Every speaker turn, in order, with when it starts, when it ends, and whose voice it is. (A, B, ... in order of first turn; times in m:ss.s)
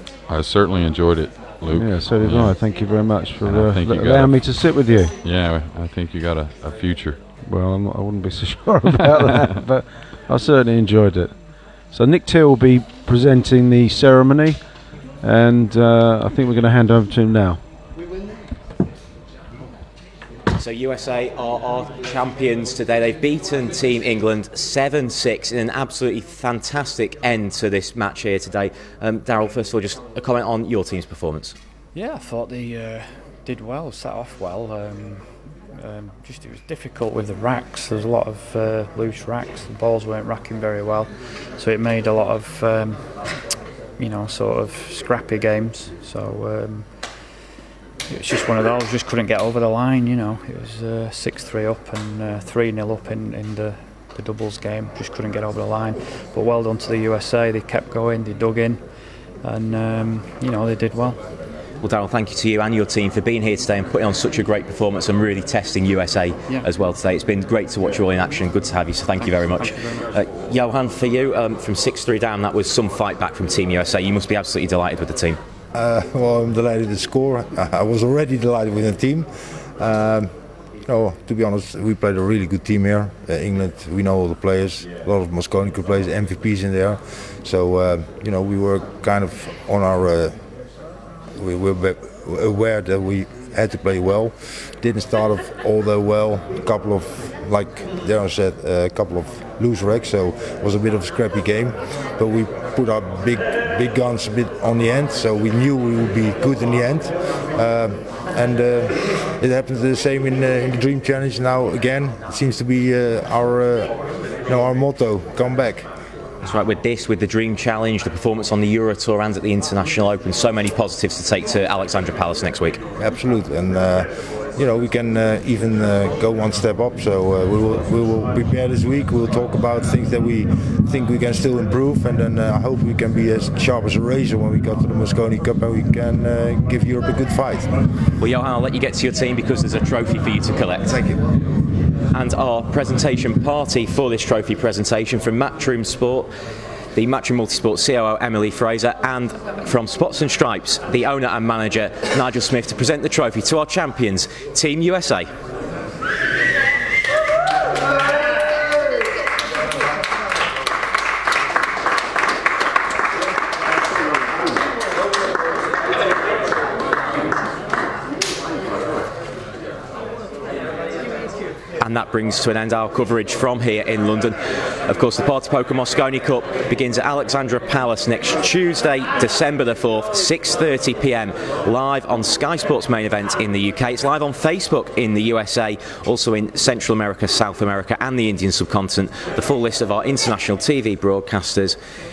0:00.3-0:02.8 A
0:01.7-0:05.1 B
0:03.4-0:07.2 A
0:07.4-0:17.6 B
0:08.9-0:09.5 A
0:20.5-0:31.6 C
0:31.9-0:43.4 D
0:44.0-0:47.4 D
0:48.1-1:01.2 D
1:01.8-1:15.4 C
1:09.4-1:10.1 D
1:15.7-1:30.8 E
1:31.3-1:55.9 E
1:56.4-2:02.8 C
2:03.0-2:17.7 E
2:18.2-2:21.0 C
2:20.9-2:21.2 E
2:22.1-2:26.3 C
2:27.0-2:35.3 C
2:51.8-3:11.8 C